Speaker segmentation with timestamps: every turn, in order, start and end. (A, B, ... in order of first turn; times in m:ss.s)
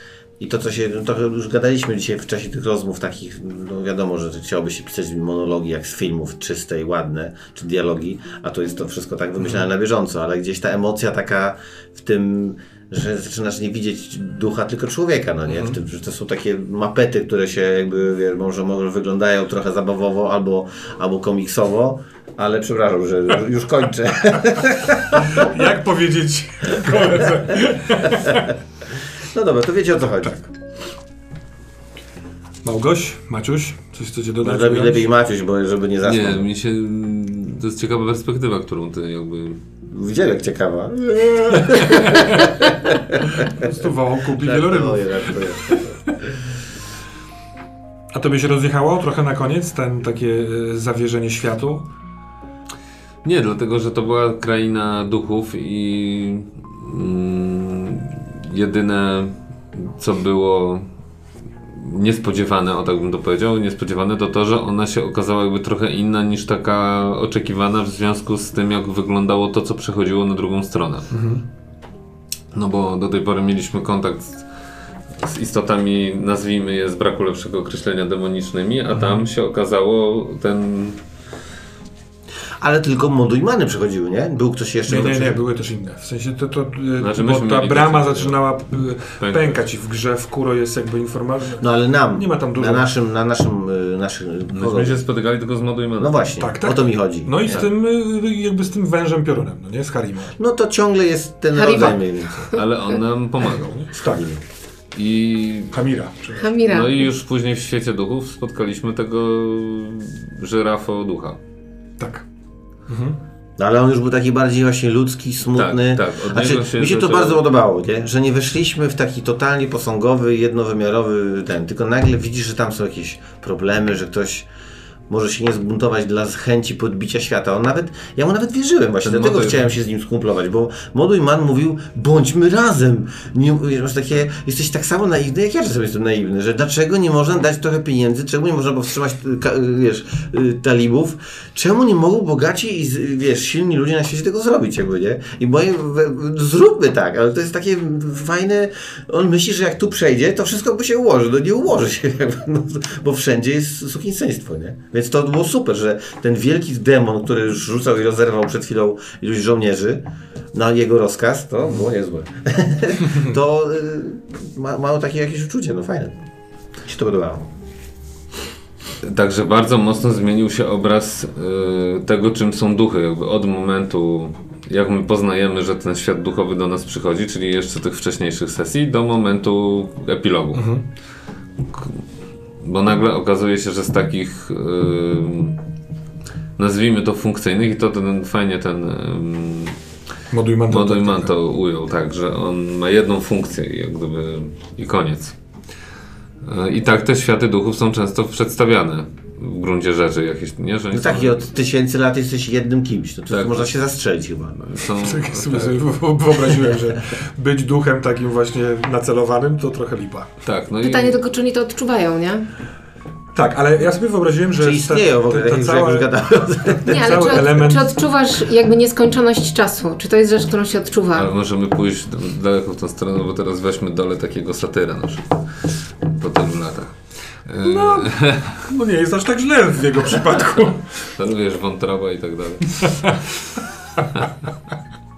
0:00.4-0:25.5 A
0:25.1-0:28.4 B
0:29.3-0:30.4 A
0:32.6-0:35.1 B
0:34.4-0:36.4 A
0:36.0-0:39.6 C
0:39.8-0:43.5 A
0:41.6-0:42.7 B
0:43.3-0:46.1 B
0:44.4-0:46.0 A
0:48.1-0:51.9 B
0:53.2-1:00.9 C
1:01.7-1:11.1 C
1:11.1-1:11.4 B
1:12.5-1:14.5 C
1:15.2-1:21.0 C
1:18.9-1:19.2 B
1:22.6-1:25.4 A
1:24.8-1:32.9 B
1:27.0-1:28.4 C
1:29.2-1:29.6 C
1:31.6-1:35.0 A
1:34.5-1:36.3 C
1:36.0-1:37.6 A
1:36.4-1:40.3 B
1:40.4-1:42.4 A
1:41.5-1:42.6 D
1:42.5-1:43.8 C
1:43.6-1:44.2 B
1:43.9-1:44.4 A
1:44.9-1:45.7 C
1:45.7-1:46.5 B
1:46.4-1:47.1 D
1:46.6-1:51.4 C
1:52.0-1:52.2 B
1:52.9-1:53.2 B
1:53.6-2:04.5 A
1:55.5-1:57.4 C
2:05.1-2:46.2 A
2:09.0-2:09.7 C
2:46.8-2:47.5 A
2:49.0-3:00.6 C
3:00.5-3:00.8 B
3:01.7-3:02.0 C
3:02.6-3:05.6 C
3:06.6-3:09.8 C
3:10.3-3:11.3 B
3:10.7-3:15.3 C
3:16.4-3:21.4 C
3:20.9-3:24.6 A
3:23.3-3:23.8 C
3:24.6-3:25.8 C
3:25.0-3:30.3 B
3:30.4-3:31.2 C
3:30.8-3:32.4 D
3:33.3-3:36.1 B
3:34.6-3:37.2 A
3:36.6-3:37.9 B
3:36.9-3:41.3 D
3:41.1-3:45.4 C
3:46.0-3:48.5 C
3:47.6-3:50.9 B
3:51.2-3:53.2 C
3:52.8-3:53.1 B